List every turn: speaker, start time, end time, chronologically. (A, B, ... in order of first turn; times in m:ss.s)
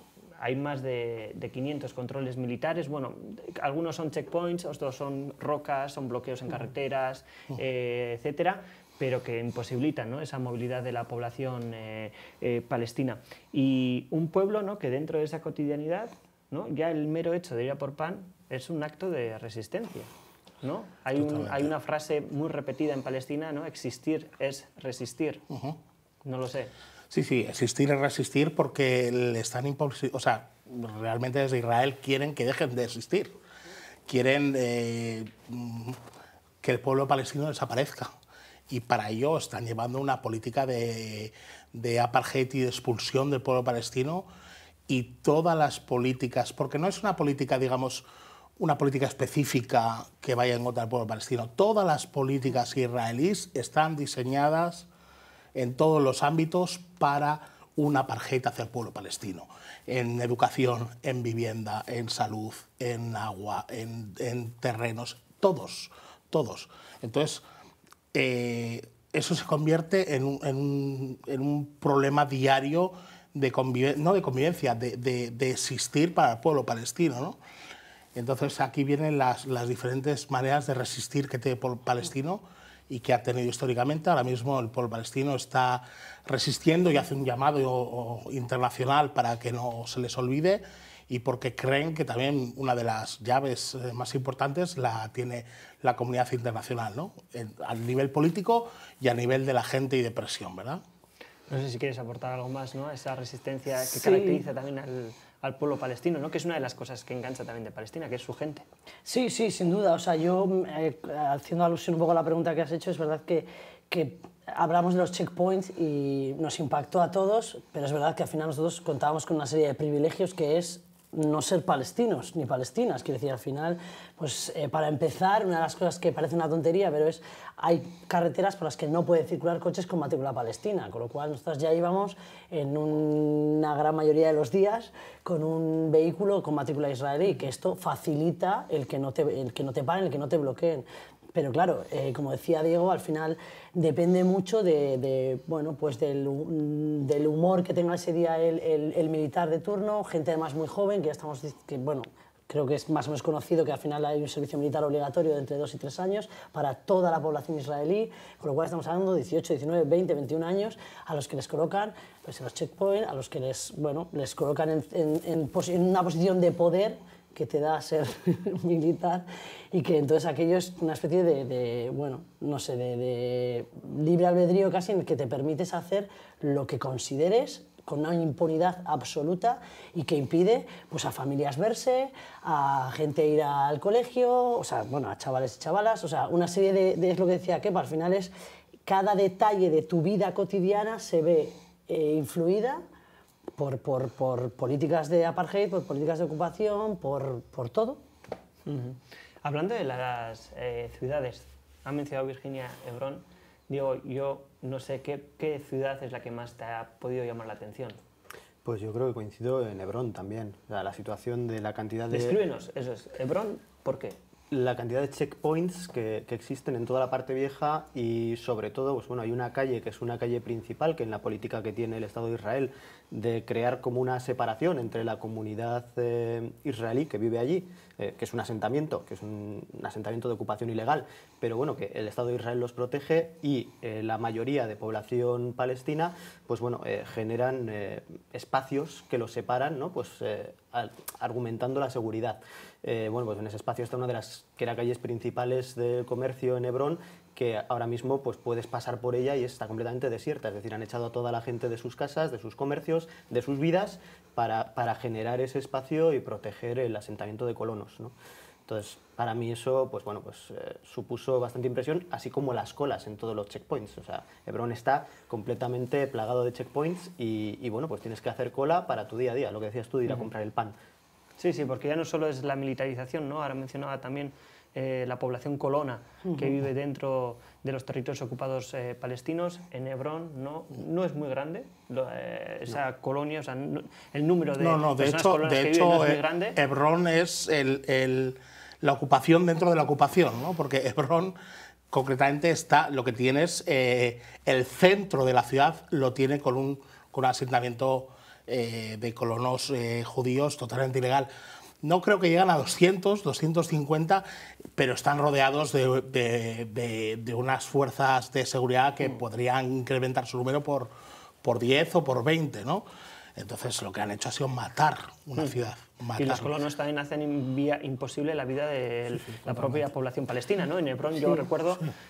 0:00.4-0:20.1 A
0:20.6-0:25.4 A
0:21.2-0:21.7 B
0:25.5-0:25.8 B
0:26.2-0:26.7 A
0:27.1-0:33.3 B
0:34.1-0:36.0 B
0:36.6-0:38.1 B
0:38.7-0:44.2 B
0:44.9-0:48.0 B
0:48.6-0:54.9 B
0:55.5-1:07.4 B
1:08.1-1:17.4 B
1:18.1-1:40.8 B
1:41.5-1:48.6 A
1:43.9-1:44.4 C
1:49.0-3:08.3 C
3:08.8-3:12.8 C
3:13.5-3:18.0 C
3:18.6-3:28.0 A
3:28.6-3:32.4 D
3:32.1-3:34.2 A
3:34.5-4:18.1 D
4:18.7-4:30.7 D
4:31.4-4:46.6 A
4:44.6-4:51.3 B
4:51.9-5:01.3 B
5:01.8-5:04.2 B
5:04.8-5:10.9 B
5:11.4-5:12.8 B
5:13.4-5:16.5 B
5:16.2-5:21.9 A
5:19.5-5:19.8 B